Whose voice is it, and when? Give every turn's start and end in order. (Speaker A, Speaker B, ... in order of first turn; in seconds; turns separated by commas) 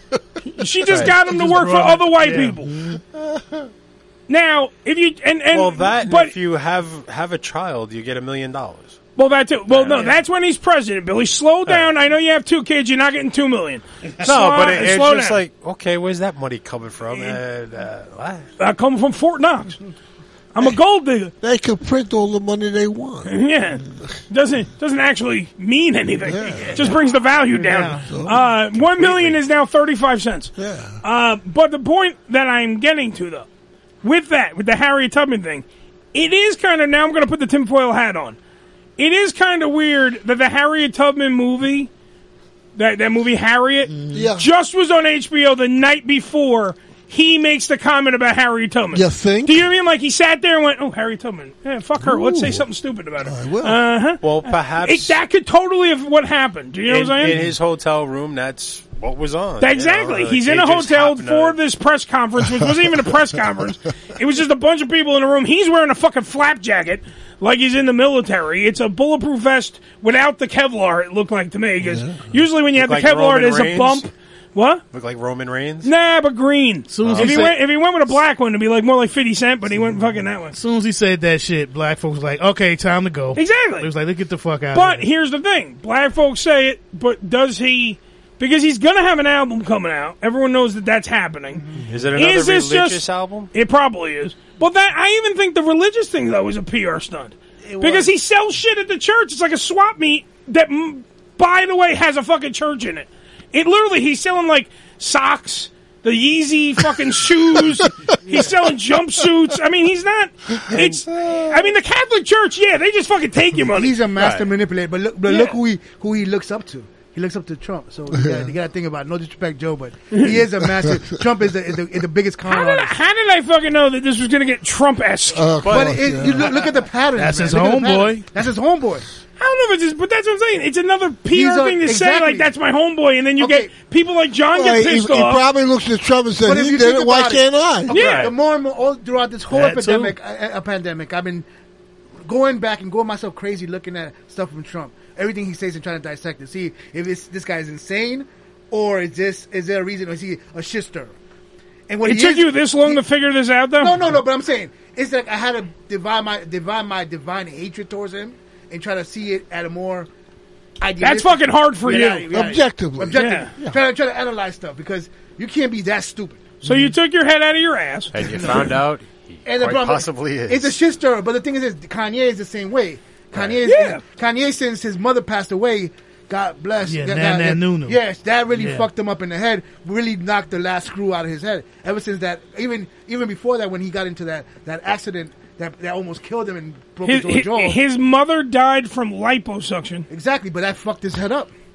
Speaker A: 0.5-2.7, Speaker B: 1.2-2.9, Speaker A: 4.3-6.3, Speaker C: 5.5-9.0, Speaker A: 9.2-15.4, Speaker C: 9.7-10.2, Speaker C: 11.7-11.9, Speaker C: 14.2-18.4, Speaker A: 17.1-17.4, Speaker A: 18.6-19.8, Speaker A: 20.5-21.3, Speaker D: 21.4-23.3, Speaker A: 23.3-30.5, Speaker D: 26.3-26.9, Speaker B: 27.6-28.0, Speaker D: 27.9-29.4, Speaker D: 30.6-31.0, Speaker A: 31.0-33.5, Speaker A: 34.0-38.4, Speaker A: 39.0-41.9, Speaker A: 42.8-57.4, Speaker D: 44.1-44.5, Speaker D: 48.9-49.7, Speaker D: 52.0-52.6, Speaker D: 53.2-53.8, Speaker C: 54.2-55.2, Speaker C: 56.9-61.6, Speaker A: 59.6-74.8, Speaker D: 71.8-72.2, Speaker C: 72.8-74.1, Speaker C: 74.9-75.9, Speaker A: 75.8-80.6, Speaker B: 76.9-77.6, Speaker B: 80.5-85.0, Speaker A: 83.3-83.9, Speaker A: 84.7-91.6, Speaker E: 91.5-91.9, Speaker C: 91.9-93.5, Speaker A: 92.2-113.9, Speaker E: 97.7-98.1, Speaker E: 113.7-123.0, Speaker C: 114.2-114.5, Speaker A: 115.3-115.6, Speaker D: 118.1-118.5, Speaker A: 122.5-125.5, Speaker D: 125.3-126.5, Speaker C: 125.6-126.5, Speaker E: 125.7-129.1, Speaker B: 127.2-128.3, Speaker A: 129.4-135.4, Speaker E: 131.3-132.5, Speaker E: 133.4-133.7, Speaker D: 134.5-137.9, Speaker E: 136.4-141.4, Speaker A: 137.9-138.3, Speaker C: 137.9-138.3, Speaker B: 139.5-140.2, Speaker E: 142.2-151.1, Speaker E: 151.9-153.0, Speaker A: 152.1-154.0, Speaker E: 153.8-160.1, Speaker E: 160.8-166.6, Speaker A: 161.0-162.3, Speaker D: 162.3-163.8, Speaker A: 163.1-163.5, Speaker A: 166.6-168.1, Speaker B: 166.6-166.9, Speaker C: 168.1-170.8, Speaker E: 168.2-168.8, Speaker E: 169.5-187.8, Speaker A: 173.7-174.0, Speaker B: 176.9-178.0, Speaker B: 178.6-178.9, Speaker A: 187.1-190.1, Speaker E: 190.1-191.5